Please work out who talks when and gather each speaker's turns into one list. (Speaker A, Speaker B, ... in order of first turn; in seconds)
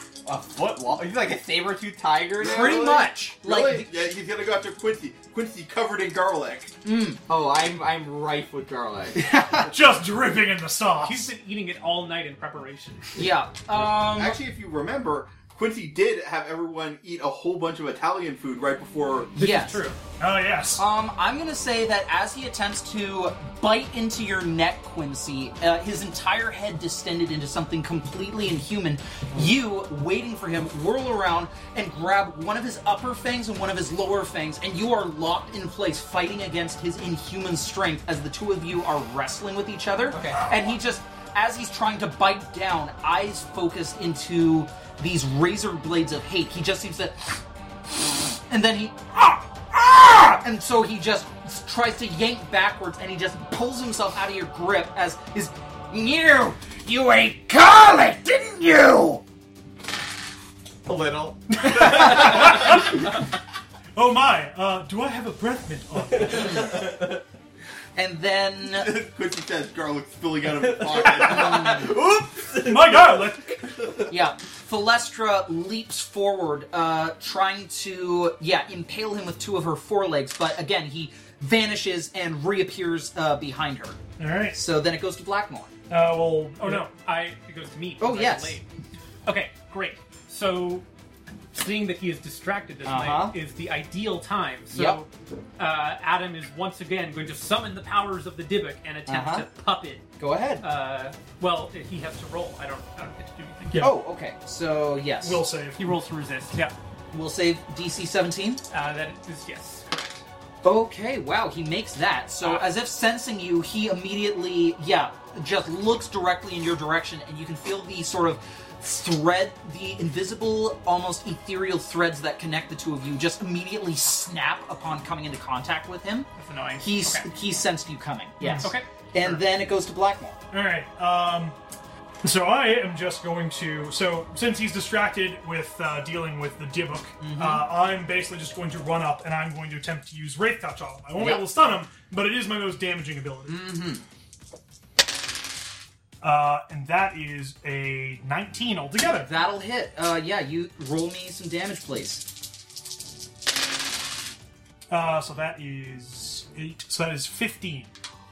Speaker A: 0.2-3.1, 7.3-9.3, 40.1-40.5, 60.9-62.9, 66.3-67.2, 70.6-73.8
Speaker B: 2.4-4.0, 6.8-7.2, 9.2-9.7, 13.1-14.4, 19.3-19.9, 20.8-59.2, 68.0-69.0, 71.3-71.9, 74.1-84.0, 84.5-85.7, 88.0-88.6, 92.8-93.3, 94.7-95.0, 99.1-99.5, 100.2-100.6, 103.8-105.4, 107.1-108.6, 110.6-130.4, 137.2-137.7, 141.1-141.5, 143.4-144.0, 149.2-152.2
Speaker C: 2.5-6.7, 13.7-19.3, 68.7-71.8
Speaker D: 9.7-11.3, 20.2-20.8, 61.5-63.2, 64.0-66.8, 72.6-73.6, 84.2-84.6, 85.9-86.9, 103.7-104.0, 105.2-106.0, 128.4-128.7, 130.5-131.5, 132.2-143.7, 146.2-149.3, 154.9-157.9
Speaker E: 11.0-13.2, 19.3-20.0, 86.6-88.7, 89.2-90.8, 91.5-100.1, 100.6-103.9, 105.8-106.7, 108.7-110.2, 112.4-112.7, 126.4-127.3, 128.6-129.4